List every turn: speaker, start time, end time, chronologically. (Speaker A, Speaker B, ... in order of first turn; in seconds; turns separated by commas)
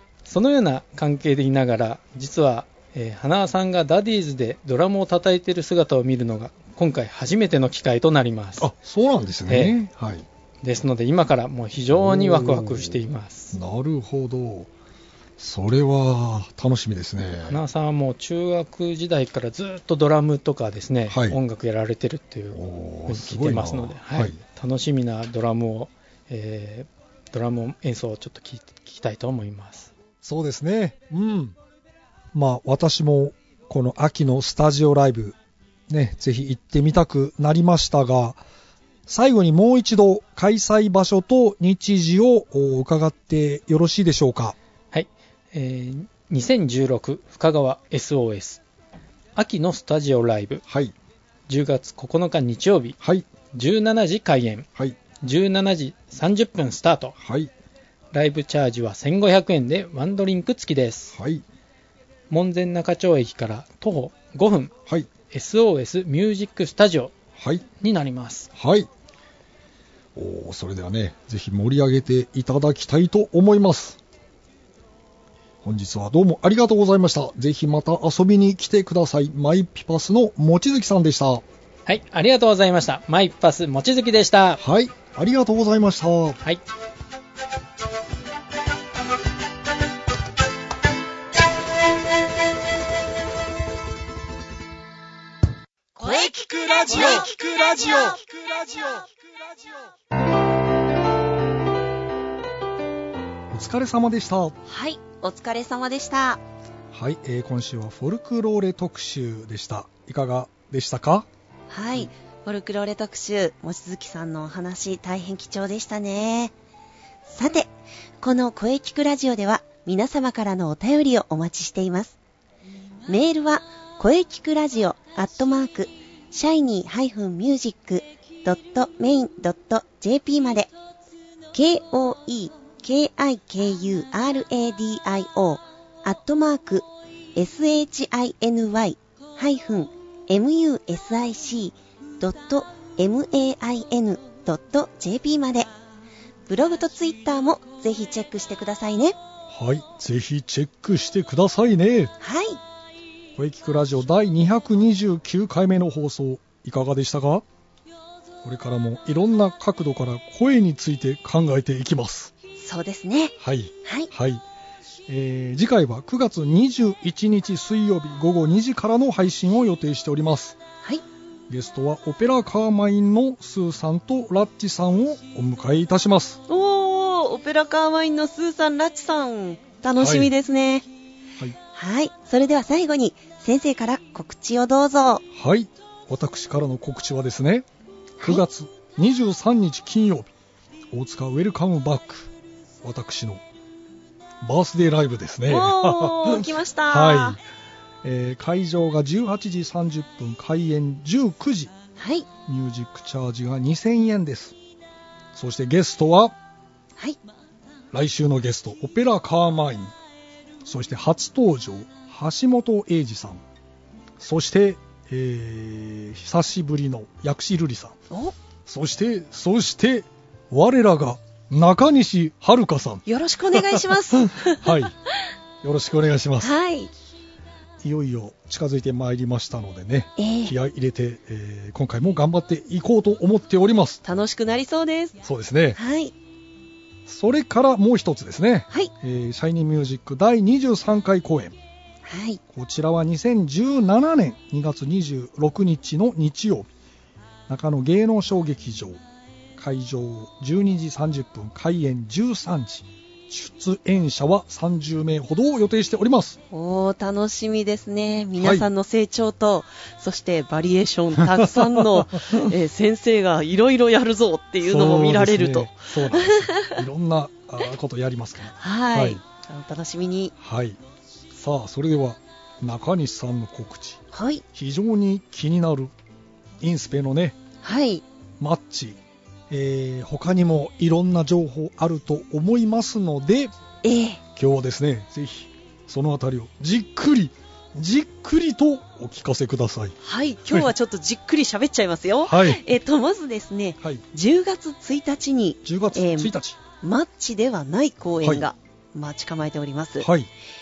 Speaker A: 0.2-8.7, Speaker B: 8.6-10.2, Speaker A: 9.5-9.8, Speaker A: 10.6-13.6, Speaker B: 11.9-12.9, Speaker B: 13.5-14.7, Speaker B: 15.4-17.6, Speaker A: 17.5-29.9, Speaker B: 21.1-21.4, Speaker B: 22.5-24.4, Speaker B: 30.2-31.6, Speaker B: 32.3-35.4, Speaker B: 35.9-38.4, Speaker B: 39.1-44.5, Speaker A: 44.9-48.6, Speaker A: 49.4-50.6, Speaker B: 50.7-50.9, Speaker A: 51.5-53.0, Speaker B: 53.0-53.2, Speaker A: 53.5-54.7, Speaker A: 55.2-57.1, Speaker B: 57.2-57.5, Speaker A: 58.1-61.1, Speaker B: 61.1-61.4, Speaker A: 62.3-64.7, Speaker A: 65.3-67.1, Speaker B: 67.4-67.6, Speaker A: 67.8-68.5, Speaker B: 68.5-68.9, Speaker B: 70.1-74.0, Speaker B: 75.6-81.4, Speaker A: 81.8-84.6, Speaker B: 84.6-86.4, Speaker C: 96.0-96.3, Speaker D: 96.2-98.7, Speaker B: 96.6-98.0, Speaker C: 96.8-98.1, Speaker B: 103.5-104.6, Speaker C: 104.7-106.4, Speaker B: 106.9-111.3, Speaker C: 111.7-116.5, Speaker C: 117.3-117.7, Speaker C: 118.2-122.2, Speaker C: 123.1-130.7, Speaker C: 131.5-145.7, Speaker C: 146.5-149.2, Speaker B: 149.5-152.1, Speaker C: 152.2-152.6, Speaker B: 153.3-157.4, Speaker B: 158.4-162.3, Speaker C: 162.6-164.1, Speaker B: 163.4-164.4, Speaker B: 165.1-170.6, Speaker B: 171.5-176.4, Speaker C: 176.5-180.9, Speaker B: 179.9-180.3, Speaker C: 181.7-185.2, Speaker B: 185.3-187.7, Speaker B: 188.2-190.3, Speaker B: 190.9-192.3, Speaker B: 192.8-193.4, Speaker B: 194.4-197.4, Speaker C: 195.5-197.4, Speaker B: 198.0-201.7, Speaker C: 202.0-202.3, Speaker B: 202.4-204.5, Speaker B: 205.3-206.3, Speaker B: 207.9-209.9, Speaker B: 210.6-213.4, Speaker B: 214.2-217.9, Speaker C: 218.1-218.3, Speaker B: 218.7-223.8, Speaker C: 223.1-224.7, Speaker B: 224.4-224.9, Speaker B: 225.6-226.5, Speaker C: 226.4-226.9, Speaker B: 227.8-234.0, Speaker C: 230.2-230.5, Speaker C: 234.0-235.2, Speaker B: 235.2-235.8, Speaker C: 235.7-236.1, Speaker B: 237.1-241.6, Speaker C: 242.0-242.4, Speaker B: 242.5-246.7, Speaker B: 247.5-249.0, Speaker B: 249.6-256.4, Speaker C: 256.5-266.8, Speaker B: 258.4-258.6, Speaker B: 262.0-262.4, Speaker B: 264.6-269.2, Speaker C: 268.6-270.3, Speaker B: 270.4-270.8, Speaker B: 271.3-274.0, Speaker C: 274.1-274.4, Speaker B: 274.5-275.9, Speaker B: 276.6-277.4, Speaker C: 277.6-278.0, Speaker B: 278.4-283.5, Speaker C: 283.8-284.2, Speaker B: 284.4-289.9, Speaker C: 290.0-300.1, Speaker B: 292.2-292.6, Speaker B: 295.6-296.6, Speaker B: 298.2-298.5, Speaker B: 300.0-300.3